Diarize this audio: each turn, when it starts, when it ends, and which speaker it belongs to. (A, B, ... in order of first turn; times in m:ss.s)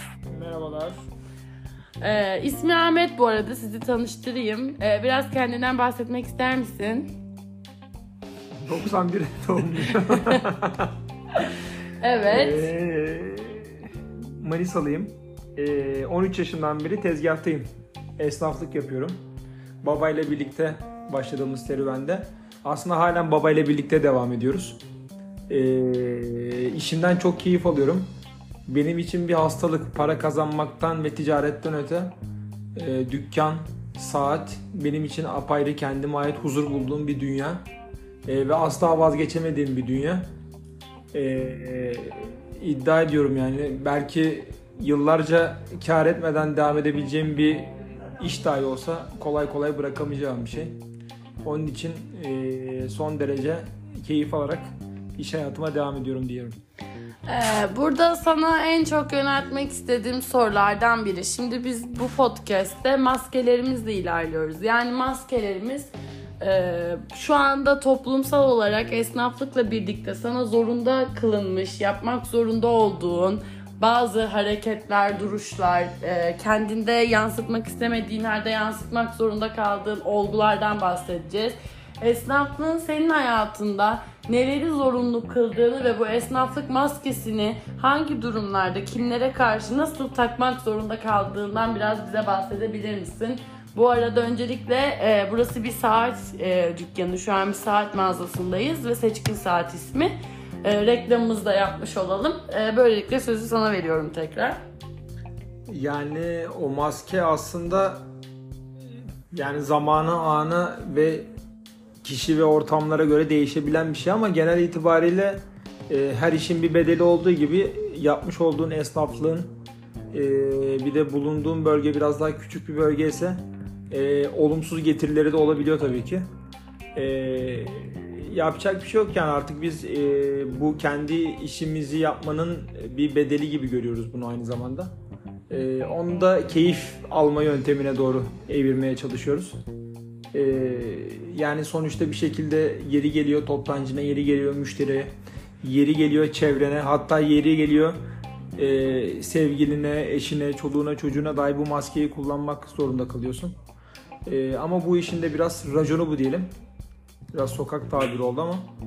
0:00.3-0:01.0 A
0:02.0-0:07.1 B
0:08.6-0:10.9 A
0:10.1-0:10.4 B
0:12.0-0:12.7 B
0:12.3-0:19.2 A
0:19.8-0:24.8 A
0:25.5-0:28.1 A
0:28.7-0:32.1 A
0:32.7-0:37.6 A
0:38.2-0:40.3 A
0:41.1-0:50.8 A
0:51.4-0:56.6 A
0:57.3-1:40.1 B
1:40.6-1:44.6 B
1:45.7-1:48.0 A
1:49.3-1:51.3 A
1:52.0-1:59.5 A
2:00.1-2:06.2 A
2:06.9-2:14.9 A
2:15.5-2:19.6 A
2:20.3-2:28.0 A
2:28.6-2:33.5 A
2:34.2-2:36.5 A
2:37.3-2:38.7 A